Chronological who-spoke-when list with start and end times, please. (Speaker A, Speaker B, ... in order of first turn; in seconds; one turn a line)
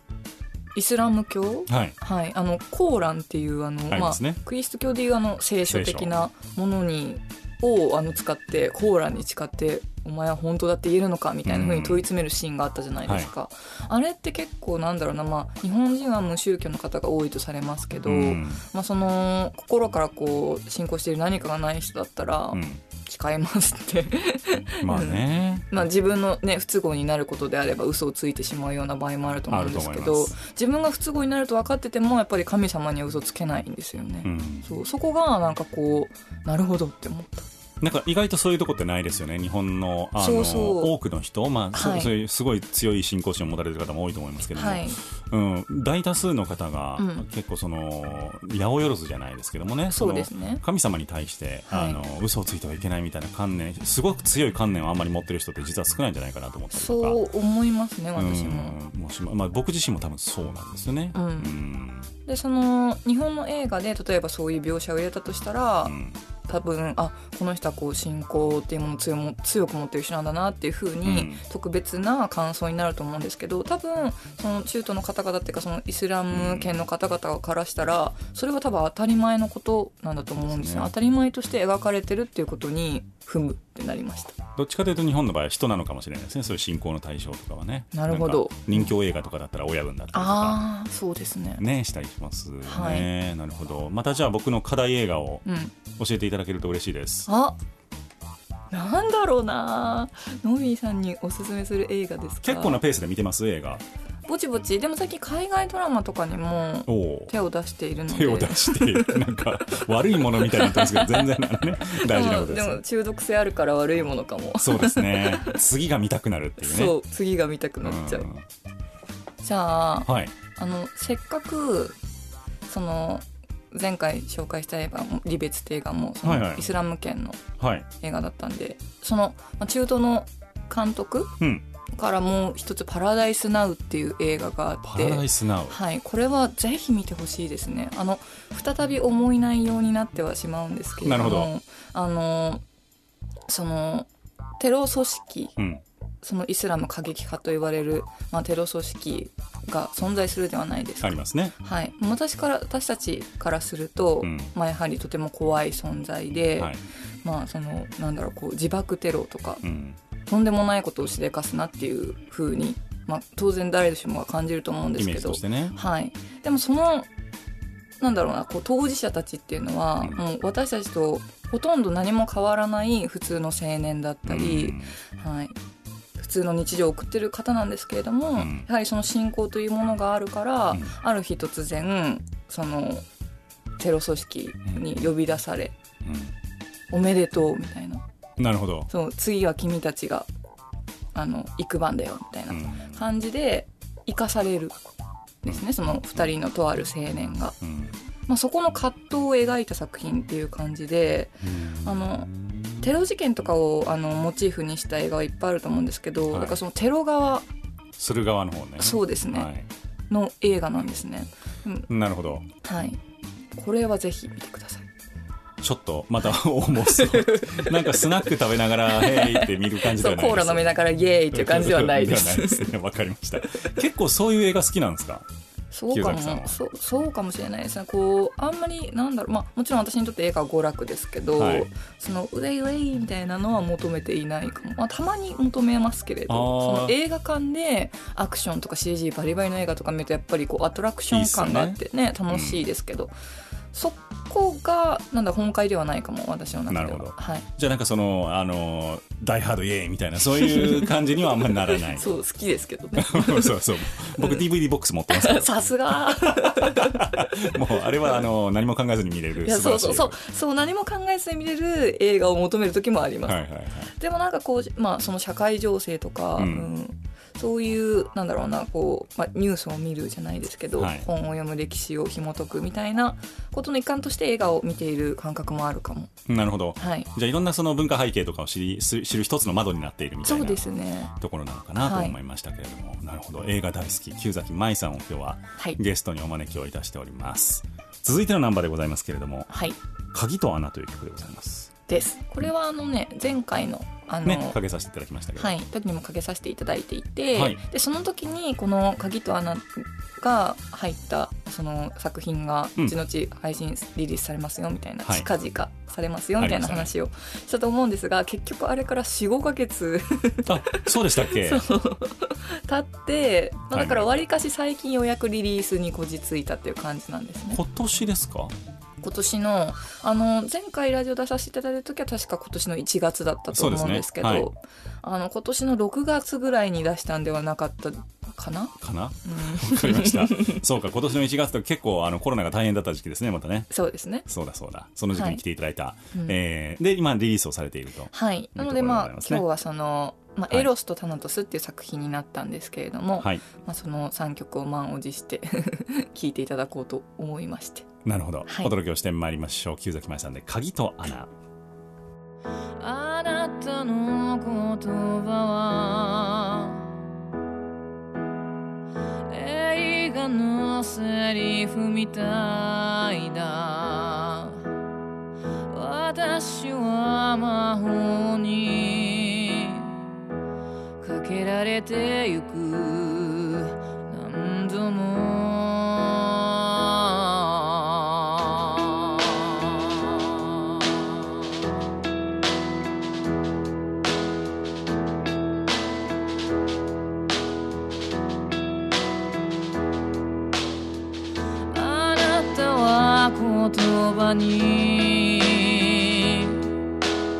Speaker A: 0.7-37.5
Speaker B: 1.7-1.9
Speaker B: 3.9-4.4
Speaker B: 5.7-6.1
Speaker B: 11.4-12.0
Speaker B: 18.0-18.6
Speaker B: 22.5-22.8
Speaker B: 24.8-25.8
Speaker B: 29.5-30.3
Speaker B: 34.2-34.7
Speaker B: 37.8-57.2
Speaker A: 40.2-40.9
Speaker A: 41.7-42.1
Speaker A: 44.5-45.0
Speaker A: 47.0-47.2
Speaker A: 49.9-50.6
Speaker A: 51.7-52.0
Speaker A: 56.7-58.8
Speaker B: 58.1-62.1
Speaker A: 61.1-61.6
Speaker A: 62.2-65.9
Speaker B: 65.8-66.2
Speaker A: 66.5-84.3
Speaker B: 71.0-71.4
Speaker B: 76.3-76.7
Speaker B: 80.4-80.9
Speaker B: 84.5-90.6
Speaker A: 87.9-88.9
Speaker A: 90.1-91.6
Speaker B: 91.6-97.3
Speaker A: 92.7-93.1
Speaker A: 95.4-95.7
Speaker A: 97.3-97.6
Speaker A: 98.7-102.8
Speaker B: 102.4-103.8
Speaker A: 104.2-109.2
Speaker B: 106.9-107.3
Speaker B: 108.1-112.8
Speaker A: 110.3-111.3
Speaker A: 111.9-115.6
Speaker B: 114.6-117.0
Speaker A: 116.6-118.3
Speaker B: 117.8-118.5
Speaker A: 119.4-122.0
Speaker B: 120.0-120.3
Speaker A: 122.7-127.4
Speaker B: 126.2-126.7
Speaker B: 127.6-127.9
Speaker A: 128.0-131.4
Speaker A: 131.9-142.6
Speaker B: 134.8-135.8
Speaker B: 141.0-141.5
Speaker A: 143.5-145.5
Speaker B: 145.6-145.8
Speaker A: 146.2-159.6
Speaker B: 151.0-151.5
Speaker B: 154.2-154.5
Speaker B: 159.6-160.0
Speaker A: 160.2-167.1
Speaker B: 164.9-165.8
Speaker A: 168.0-175.6
Speaker B: 174.2-174.9
Speaker A: 176.2-183.0
Speaker B: 178.4-178.7
Speaker A: 183.8-185.7
Speaker B: 184.7-185.0
Speaker B: 186.0-186.3
Speaker A: 186.9-188.0
Speaker B: 188.4-188.9
Speaker A: 188.9-190.3
Speaker A: 191.1-194.8
Speaker B: 192.5-193.0
Speaker A: 195.4-197.6
Speaker B: 197.6-197.9
Speaker A: 198.3-202.3
Speaker B: 201.4-202.9
Speaker A: 202.8-207.4
Speaker B: 206.3-206.6
Speaker B: 208.0-209.7
Speaker A: 208.8-209.5
Speaker A: 210.1-211.9
Speaker B: 211.9-212.4
Speaker A: 212.6-213.0
Speaker A: 213.5-214.9
Speaker B: 215.6-225.2
Speaker A: 216.9-218.0
Speaker A: 218.9-222.7
Speaker A: 225.7-243.1
Speaker B: 225.9-226.5
Speaker B: 231.3-231.7
Speaker B: 236.3-236.9
Speaker B: 241.1-242.6
Speaker A: 243.7-247.5
Speaker B: 246.7-252.2
Speaker A: 250.3-254.4
Speaker B: 253.0-260.2
Speaker A: 255.1-257.5
Speaker A: 259.4-263.4
Speaker B: 263.2-263.9
Speaker A: 263.9-276.1
Speaker B: 266.4-266.7
Speaker B: 270.8-271.1
Speaker B: 276.3-289.5
Speaker A: 276.8-277.1
Speaker A: 280.2-281.1
Speaker A: 281.8-282.1
Speaker A: 289.5-289.8
Speaker B: 290.1-291.7
Speaker A: 291.9-294.6
Speaker B: 294.2-295.5
Speaker A: 295.4-317.6
Speaker B: 297.3-297.6
Speaker B: 306.4-306.9
Speaker B: 310.4-311.6
Speaker B: 313.7-314.2
Speaker B: 317.5-318.5
Speaker A: 319.0-330.6
Speaker B: 323.5-324.5
Speaker B: 328.8-333.7
Speaker A: 333.7-334.3
Speaker B: 334.3-339.4
Speaker A: 335.1-335.4
Speaker A: 338.1-347.9
Speaker B: 343.2-343.4
Speaker B: 348.0-351.3
Speaker A: 348.5-348.7
Speaker C: 352.8-356.9
Speaker C: 359.3-364.6
Speaker C: 365.7-369.9
Speaker C: 371.0-381.3
Speaker C: 391.7-396.6